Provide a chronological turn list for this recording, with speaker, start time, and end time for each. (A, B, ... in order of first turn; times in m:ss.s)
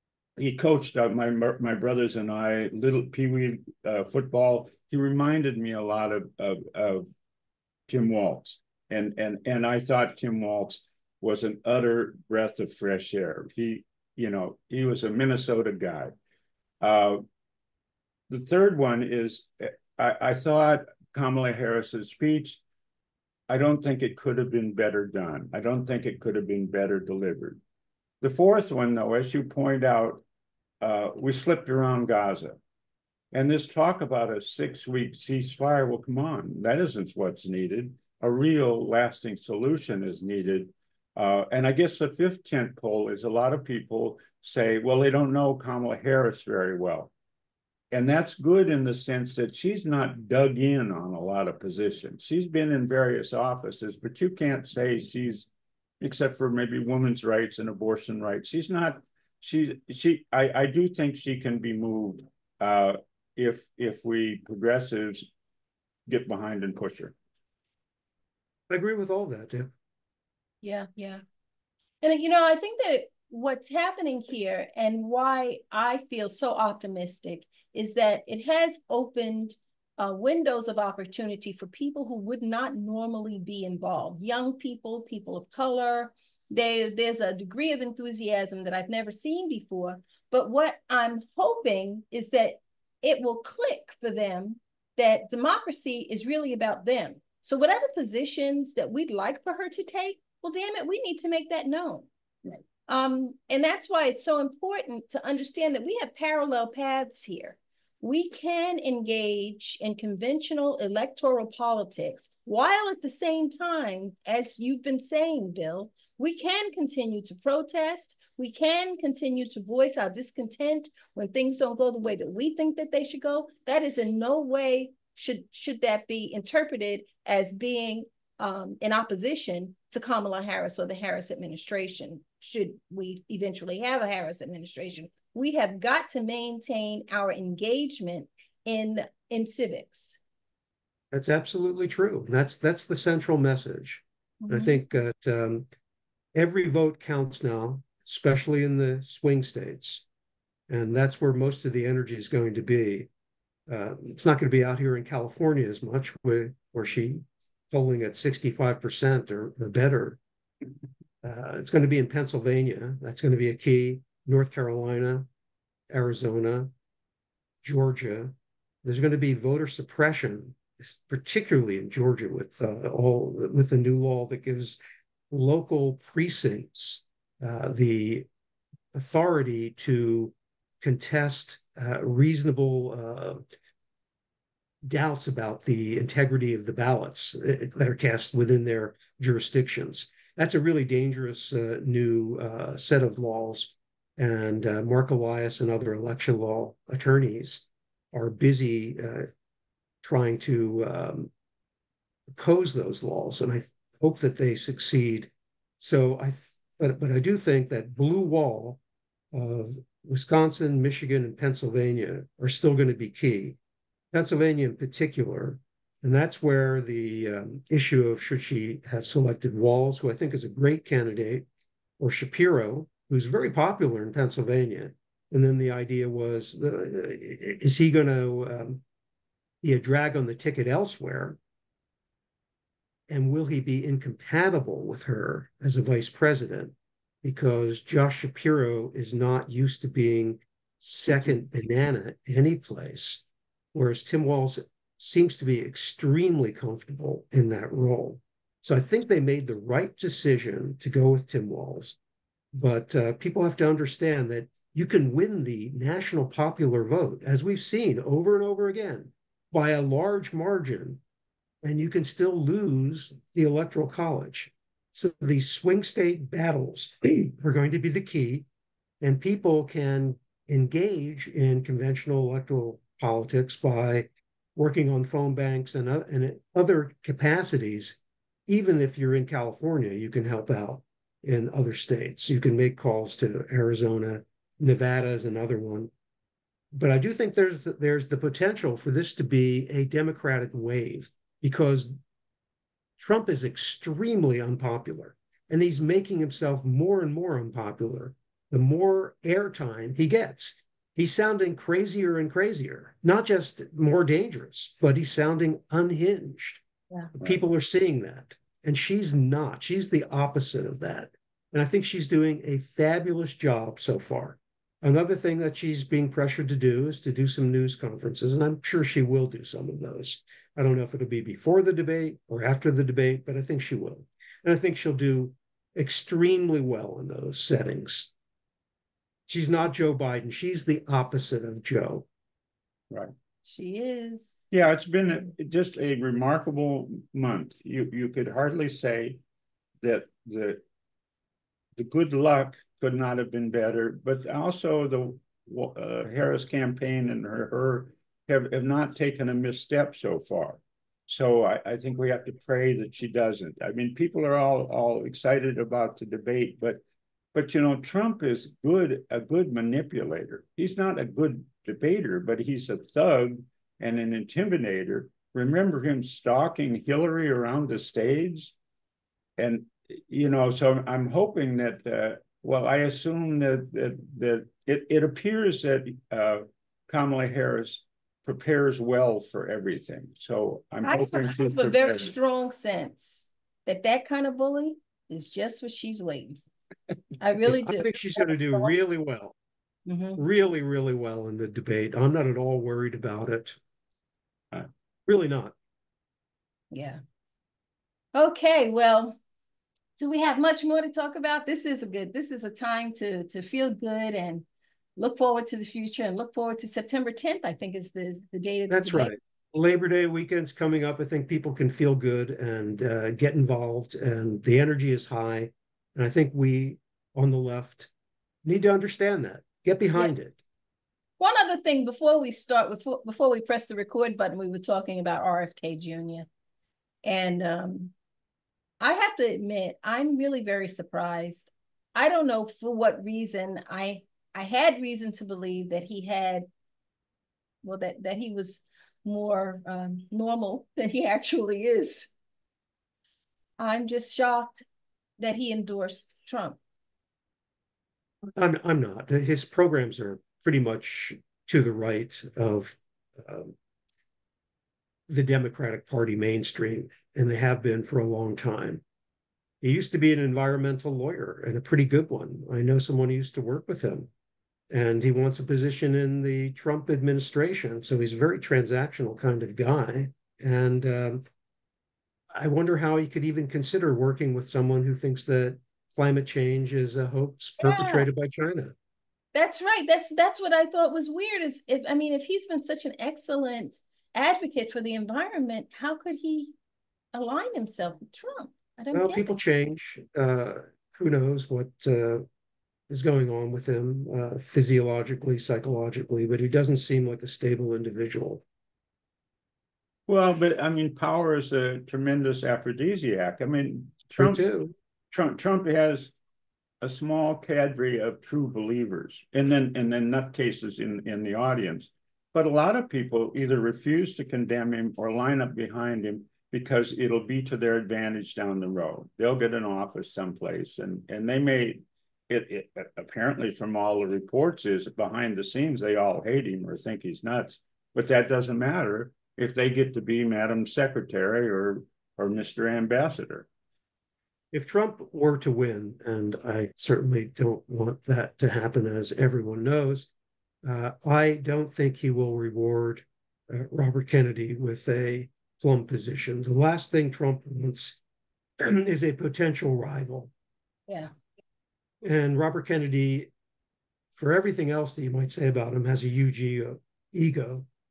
0:00.4-0:07.1 A
0:07.9-0:16.2 A
0:16.8-0:17.2 A
0:18.3-0:22.6 A
0:23.5-0:27.6 A
0:28.2-0:30.2 A
0:30.8-0:32.6 A
0:33.3-0:47.1 A
0:47.9-0:55.5 A
0:56.0-1:05.3 A
1:06.1-1:07.2 A
1:08.7-1:09.7 B
1:10.6-1:11.2 C
1:12.0-1:42.1 C
1:42.9-2:20.2 C
2:21.1-2:25.7 B
2:24.4-2:24.8 C
2:26.4-2:30.0 B
2:30.7-2:33.1 B
2:33.7-2:40.2 B
2:41.2-2:45.3 B
2:45.9-2:46.7 B
2:47.6-2:54.8 B
2:55.3-2:58.3 B
2:58.9-3:03.4 B
3:04.9-3:19.3 B
3:20.0-3:21.3 B
3:22.3-3:28.8 B
3:29.3-3:33.6 B
3:34.1-3:41.5 B
3:42.0-3:48.8 B
3:49.6-3:51.4 B
3:53.1-4:12.0 B
4:12.5-4:21.0 B
4:21.6-4:28.5 B
4:29.0-4:45.9 B
4:46.7-4:52.0 B
4:53.0-5:06.6 B
5:07.2-5:28.1 B
5:29.3-5:32.1 B
5:33.4-5:34.4 C
5:34.5-5:39.2 A
5:39.8-5:40.6 A
5:41.8-5:56.8 A
5:57.3-6:08.5 A
6:09.4-6:22.1 A
6:20.8-6:26.4 C
6:27.2-6:28.7 C
6:27.4-6:29.4 B
6:29.9-6:30.2 C
6:30.2-6:33.6 B
6:35.1-6:35.6 B
6:36.7-6:37.0 C
6:38.2-6:39.2 C
6:40.0-6:44.4 C
6:45.0-6:49.2 C
6:48.7-6:57.9 B
6:58.4-7:00.4 B
7:01.2-7:06.3 C
7:07.0-7:07.9 C
7:08.8-7:16.5 C
7:17.6-7:22.1 C
7:23.6-7:24.6 C
7:25.2-7:26.6 C
7:28.4-7:33.6 B
7:35.1-7:38.8 B
7:39.6-7:44.1 B
7:44.7-7:51.2 B
7:52.3-7:58.8 B
7:57.6-7:58.1 C
7:59.3-8:06.5 C
8:07.1-8:09.3 C
8:08.9-8:12.2 B
8:12.9-8:18.4 B
8:20.1-8:24.4 A
8:24.2-8:24.7 B
8:25.1-8:26.1 A
8:26.8-8:53.5 A
8:54.5-9:00.1 B
9:00.6-9:08.0 B
9:08.6-9:10.3 B
9:12.0-9:13.3 B
9:14.1-9:17.7 B